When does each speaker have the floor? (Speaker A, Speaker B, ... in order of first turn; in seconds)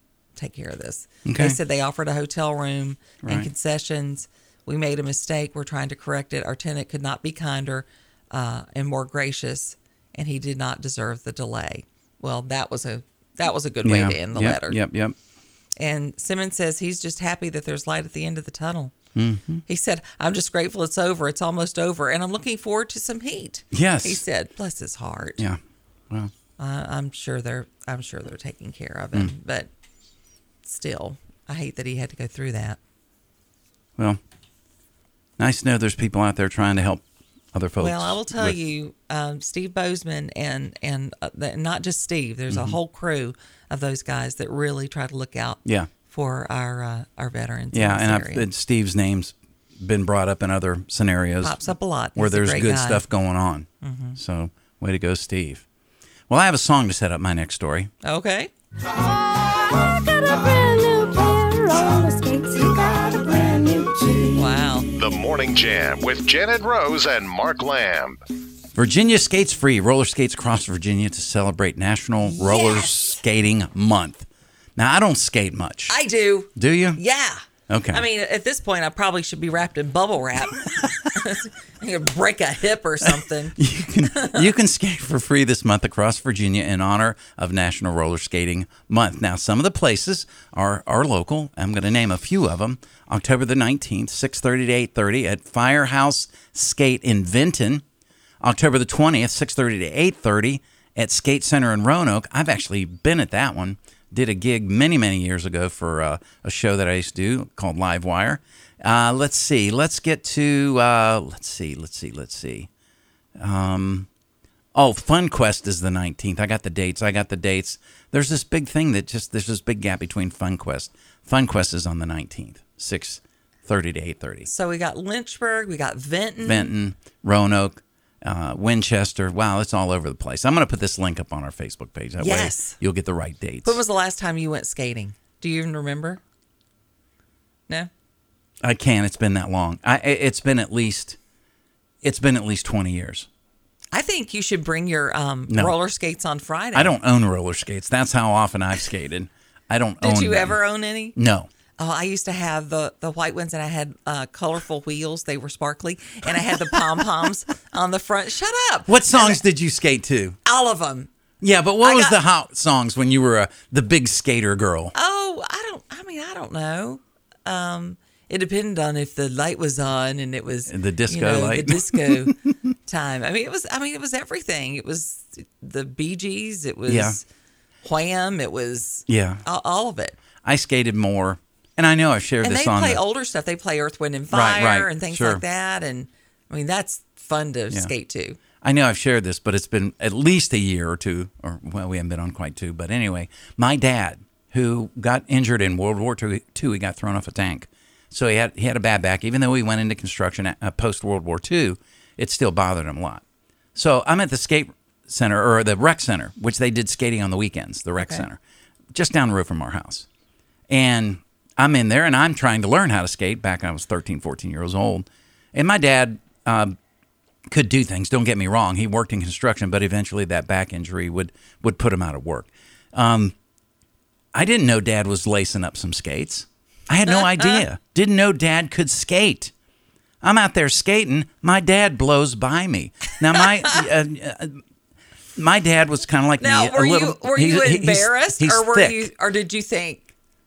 Speaker A: 0.3-14.8, 15.8-18.9, 19.7-25.4, 26.6-29.7, 30.6-32.8, 37.8-48.5, 51.4-53.0, 53.8-54.2, 58.0-58.5, 64.3-64.9, 72.3-73.1, 75.9-83.5, 84.1-84.5, 124.5-126.7, 132.2-132.8, 133.6-136.2, 143.9-146.9, 150.0-151.1, 151.8-159.4, 160.4-161.1, 161.8-162.2, 164.9-172.3, 172.9-177.2, 177.8-180.2, 182.4-188.4, 208.0-208.2, 227.2-227.6, 236.4-240.1
Speaker B: 1.2-1.6, 3.2-3.5, 13.8-15.1, 19.1-19.6, 23.7-24.2, 25.4-26.3, 35.4-38.6, 42.5-42.8, 45.6-45.9, 47.7-51.5, 52.1-55.6, 56.3-57.9, 68.7-75.9, 76.5-77.0, 77.7-78.0, 83.6-97.8, 98.4-112.7, 113.4-114.1, 114.7-124.5, 126.4-133.8, 138.6-141.2, 142.0-143.3, 145.5-145.7, 146.7-150.6, 151.1-151.5, 158.9-160.4, 161.4-164.9, 170.7-172.3, 176.9-177.2, 179.1-179.4, 180.4-183.0, 184.3-185.4, 188.6-203.2, 203.7-208.4, 208.9-210.1, 210.7-216.8, 217.5-223.3, 224.3-229.5, 230.2-234.6, 235.3-239.1
Speaker C: 64.9-68.2